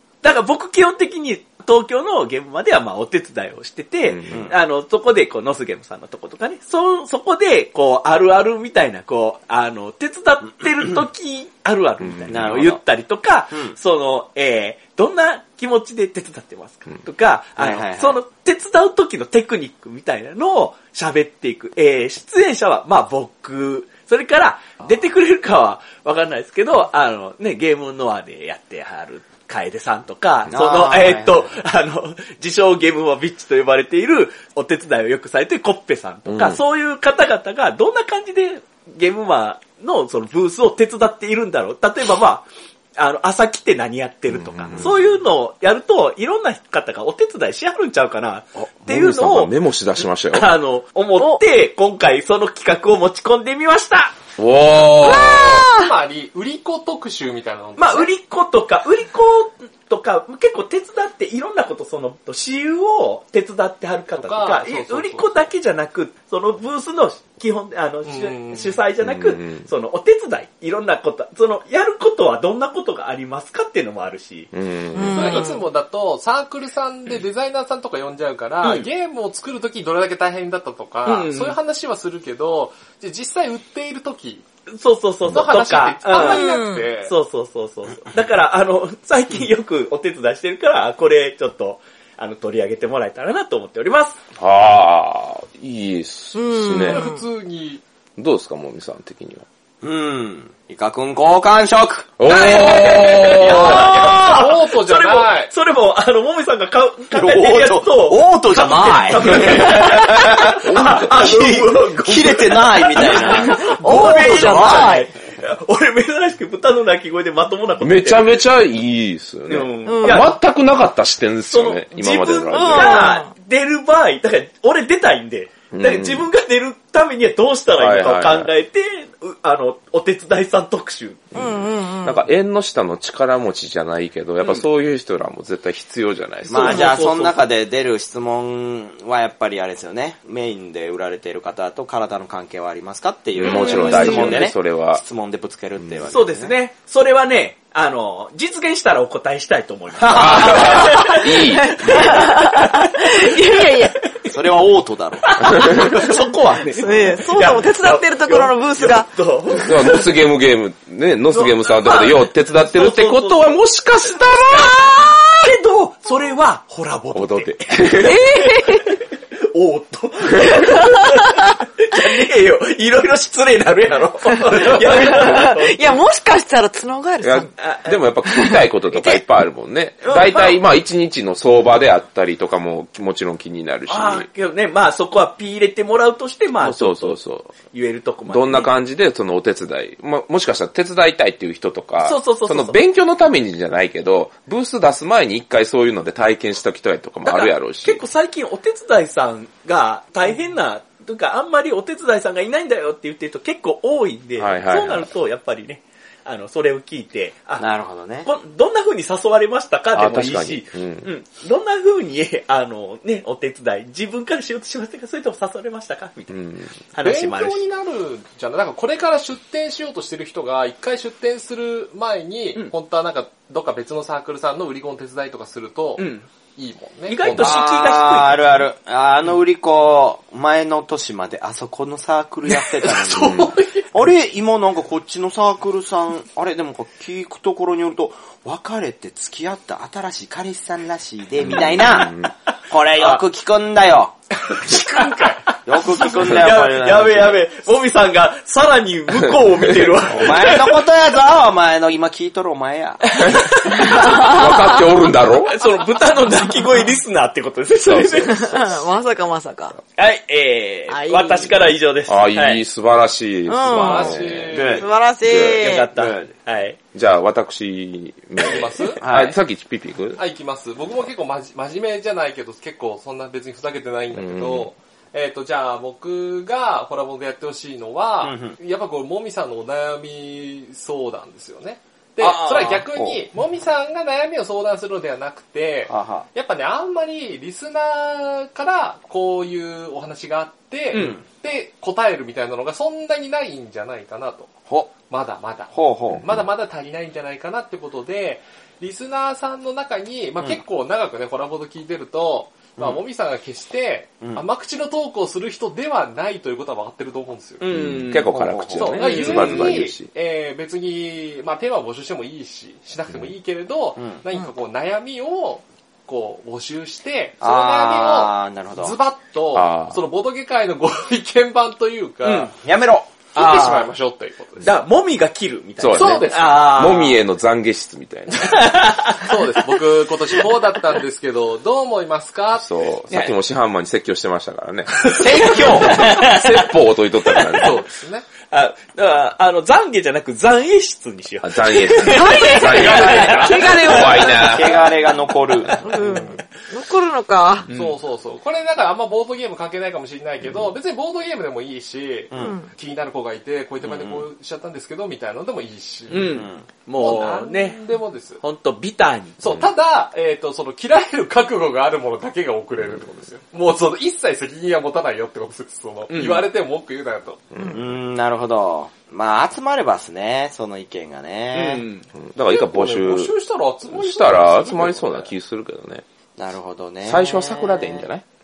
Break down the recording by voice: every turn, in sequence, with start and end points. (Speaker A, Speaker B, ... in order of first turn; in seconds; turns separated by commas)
Speaker A: 0.2-42.5, Speaker B: 4.0-4.5, Speaker C: 4.3-4.6, Speaker B: 12.0-12.6, Speaker C: 12.3-12.8, Speaker C: 17.6-18.2, Speaker C: 30.5-31.5, Speaker B: 36.3-36.6, Speaker A: 43.0-49.5, Speaker B: 44.3-45.0, Speaker B: 48.8-50.5, Speaker A: 50.3-54.1, Speaker B: 54.4-55.7, Speaker D: 55.0-55.9, Speaker E: 55.5-58.1, Speaker A: 57.8-74.5, Speaker E: 64.1-65.3, Speaker E: 68.1-68.8, Speaker B: 69.0-69.7, Speaker B: 74.5-75.5, Speaker D: 75.0-75.7, Speaker E: 75.0-84.4, Speaker A: 78.6-78.9, Speaker A: 81.1-81.6, Speaker A: 84.7-94.2, Speaker E: 85.3-87.1, Speaker D: 86.1-86.9, Speaker B: 94.4-97.0, Speaker D: 96.3-97.2, Speaker E: 96.6-97.8, Speaker B: 98.2-99.5, Speaker C: 99.8-102.1, Speaker B: 102.2-104.0, Speaker A: 102.3-118.4, Speaker E: 102.3-105.5, Speaker C: 107.1-114.9, Speaker B: 110.6-111.3, Speaker D: 113.2-115.1, Speaker B: 117.8-123.1, Speaker A: 119.5-120.3, Speaker D: 119.9-120.3, Speaker A: 121.5-131.3, Speaker D: 122.5-123.3, Speaker B: 125.7-126.3, Speaker B: 127.8-128.5, Speaker D: 131.3-132.2, Speaker B: 131.3-136.9, Speaker A: 136.5-137.4, Speaker C: 136.5-146.5, Speaker B: 143.4-145.0, Speaker A: 143.4-144.5, Speaker D: 143.8-144.4, Speaker A: 146.1-153.8, Speaker B: 150.1-151.9, Speaker C: 150.2-150.7, Speaker D: 151.1-154.0, Speaker C: 154.3-156.1, Speaker A: 155.2-160.1, Speaker D: 156.8-159.1, Speaker B: 159.5-164.8, Speaker A: 161.3-176.0, Speaker B: 167.1-168.2, Speaker D: 168.0-169.0, Speaker D: 170.5-171.5, Speaker D: 174.5-177.5, Speaker B: 177.2-184.3, Speaker A: 177.6-178.0, Speaker D: 178.3-179.2, Speaker A: 180.1-180.5, Speaker A: 183.9-187.2, Speaker B: 186.6-187.6, Speaker A: 187.7-188.7, Speaker B: 188.3-198.0, Speaker A: 192.0-192.8, Speaker A: 197.2-207.7, Speaker B: 204.4-205.1, Speaker C: 207.6-208.3, Speaker A: 208.2-217.6, Speaker B: 209.9-211.1, Speaker B: 216.3-216.7, Speaker E: 217.0-227.7, Speaker A: 226.0-226.3, Speaker A: 227.1-228.6, Speaker C: 227.3-244.2, Speaker A: 232.5-233.6, Speaker B: 233.2-233.5, Speaker E: 233.5-233.8, Speaker B: 241.4-242.3, Speaker A: 244.4-250.8, Speaker C: 245.7-247.4, Speaker B: 249.7-250.2, Speaker C: 250.1-253.4, Speaker A: 253.1-254.5, Speaker B: 253.2-255.6, Speaker D: 253.8-254.8, Speaker A: 255.5-258.5, Speaker B: 257.9-258.8, Speaker D: 258.3-259.8, Speaker A: 260.0-262.6, Speaker D: 260.9-261.5, Speaker B: 262.1-265.8, Speaker D: 263.5-264.1, Speaker E: 263.7-264.9, Speaker C: 264.5-264.9, Speaker D: 264.8-265.9, Speaker A: 265.6-266.8, Speaker C: 265.9-266.3, Speaker B: 266.9-270.2, Speaker E: 268.4-269.0, Speaker C: 269.0-269.4, Speaker E: 270.2-307.7, Speaker B: 274.1-274.7, Speaker C: 278.2-278.6, Speaker C: 282.2-283.2, Speaker C: 285.9-286.3, Speaker C: 290.9-291.2, Speaker C: 294.7-294.9, Speaker C: 295.7-296.2, Speaker C: 304.2-304.4, Speaker A: 307.6-308.4, Speaker B: 307.7-310.1, Speaker E: 308.4-322.5, Speaker C: 308.4-309.6, Speaker C: 317.4-319.0, Speaker B: 319.5-320.0, Speaker A: 322.2-322.5, Speaker C: 322.6-323.1, Speaker E: 323.3-324.7, Speaker A: 323.4-323.9, Speaker A: 324.6-327.2, Speaker B: 325.8-328.6, Speaker E: 325.9-326.7, Speaker A: 328.4-329.3, Speaker E: 329.2-332.7, Speaker B: 332.6-337.8, Speaker A: 335.0-336.7, Speaker A: 337.3-337.8, Speaker E: 337.6-338.3, Speaker A: 338.5-344.9, Speaker B: 341.4-344.8, Speaker D: 342.0-344.3, Speaker C: 344.0-345.9, Speaker A: 345.7-345.9, Speaker D: 345.8-347.7, Speaker E: 346.0-346.4, Speaker A: 347.7-348.0, Speaker E: 347.7-356.4, Speaker B: 350.4-350.7, Speaker C: 352.3-352.6, Speaker D: 352.4-352.7, Speaker C: 353.8-354.3, Speaker A: 356.1-357.8, Speaker C: 356.2-356.6, Speaker E: 357.0-358.4, Speaker A: 358.4-359.4, Speaker E: 359.4-367.5, Speaker A: 366.1-366.5, Speaker B: 367.5-367.8, Speaker C: 367.7-371.9, Speaker A: 371.5-372.1, Speaker B: 372.2-373.4, Speaker E: 372.4-375.3, Speaker B: 373.9-376.0, Speaker C: 376.4-378.1, Speaker B: 377.1-378.2